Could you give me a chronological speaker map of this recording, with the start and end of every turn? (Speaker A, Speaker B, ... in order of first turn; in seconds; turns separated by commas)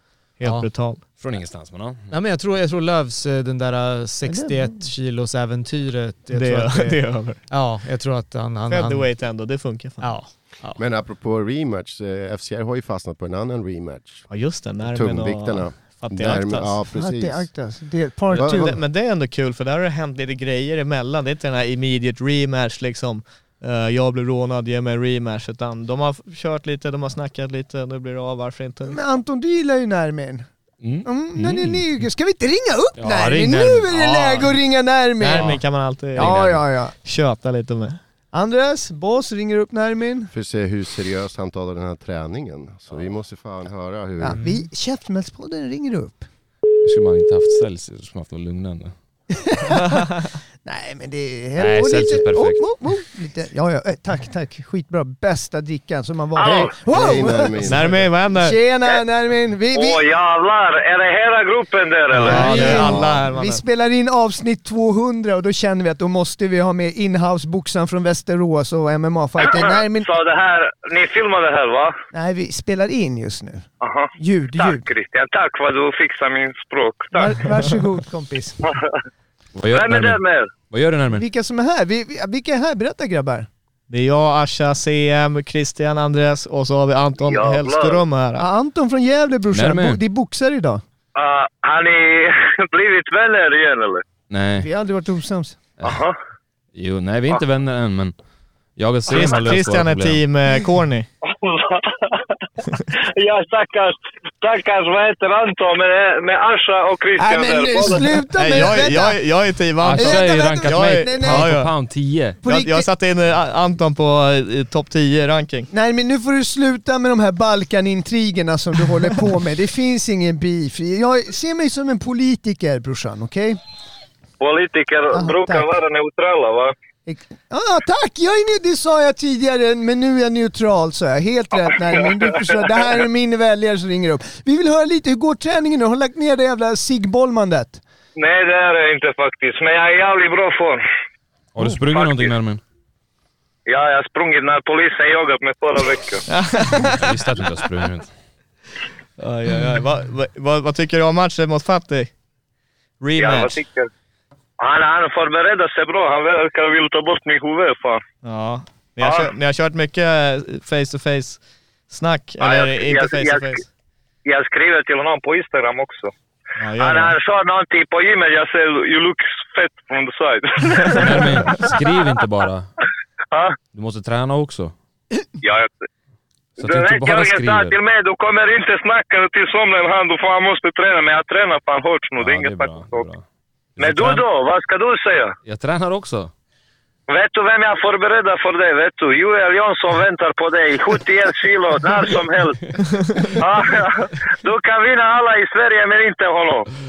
Speaker A: 0.4-1.0, Speaker B: 0.4-0.7, Speaker C: 1.2-2.1, Speaker B: 2.1-9.2, Speaker D: 4.3-4.8, Speaker A: 6.3-7.4, Speaker A: 8.7-10.2, Speaker B: 10.0-10.8, Speaker E: 10.8-17.7, Speaker A: 14.3-16.8, Speaker D: 16.9-18.8, Speaker E: 18.3-18.8, Speaker A: 18.3-29.0, Speaker D: 28.9-30.5, Speaker C: 30.8-31.9, Speaker D: 31.1-35.6, Speaker C: 33.0-34.6, Speaker A: 35.2-38.0, Speaker D: 36.2-37.0, Speaker C: 36.2-36.6, Speaker D: 38.3-40.3, Speaker E: 40.3-44.4, Speaker D: 44.2-46.3, Speaker B: 44.4-44.7, Speaker C: 46.8-48.9, Speaker D: 49.4-50.0, Speaker D: 50.6-60.0, Speaker C: 51.6-52.7, Speaker F: 56.4-56.8, Speaker E: 56.4-58.1, Speaker A: 57.6-58.6, Speaker F: 59.7-62.9, Speaker A: 62.1-63.6, Speaker D: 62.2-70.1, Speaker E: 62.8-63.2, Speaker F: 69.4-72.0, Speaker D: 72.1-74.8, Speaker F: 73.8-77.3, Speaker D: 77.2-78.6, Speaker F: 78.6-78.9, Speaker C: 79.5-81.3, Speaker F: 79.7-80.5, Speaker D: 81.1-83.5, Speaker A: 83.9-88.5, Speaker F: 87.2-88.0, Speaker D: 88.4-90.8, Speaker C: 89.5-90.0, Speaker F: 91.2-94.0, Speaker C: 94.3-94.7, Speaker D: 94.6-95.6, Speaker F: 95.8-96.2, Speaker C: 96.7-98.1, Speaker C: 98.8-100.2, Speaker A: 99.1-101.1, Speaker F: 101.2-102.4, Speaker F: 102.9-108.1, Speaker D: 107.2-109.2, Speaker A: 108.4-111.7, Speaker C: 109.8-112.4, Speaker D: 109.9-111.6, Speaker D: 112.4-112.9, Speaker A: 112.4-115.7, Speaker D: 115.7-123.6, Speaker F: 124.4-126.7, Speaker D: 125.1-125.7, Speaker D: 127.1-137.8, Speaker F: 138.2-140.8, Speaker C: 141.5-142.6, Speaker F: 141.9-142.3, Speaker F: 143.7-146.2, Speaker A: 146.3-147.1, Speaker C: 146.8-148.1, Speaker A: 149.2-152.1, Speaker A: 153.0-153.6, Speaker F: 153.2-153.9, Speaker F: 154.6-158.0, Speaker A: 158.2-163.6, Speaker F: 159.0-159.3, Speaker F: 162.4-163.6, Speaker F: 164.2-166.1, Speaker A: 166.6-167.2, Speaker F: 166.8-171.8, Speaker C: 170.9-172.7, Speaker F: 173.3-173.6, Speaker C: 173.7-174.7, Speaker F: 175.4-175.9, Speaker C: 176.6-177.8, Speaker F: 176.6-183.1, Speaker C: 182.2-183.2, Speaker C: 183.8-184.2, Speaker F: 183.8-185.4, Speaker C: 185.4-186.3, Speaker F: 187.1-192.7, Speaker F: 193.3-196.7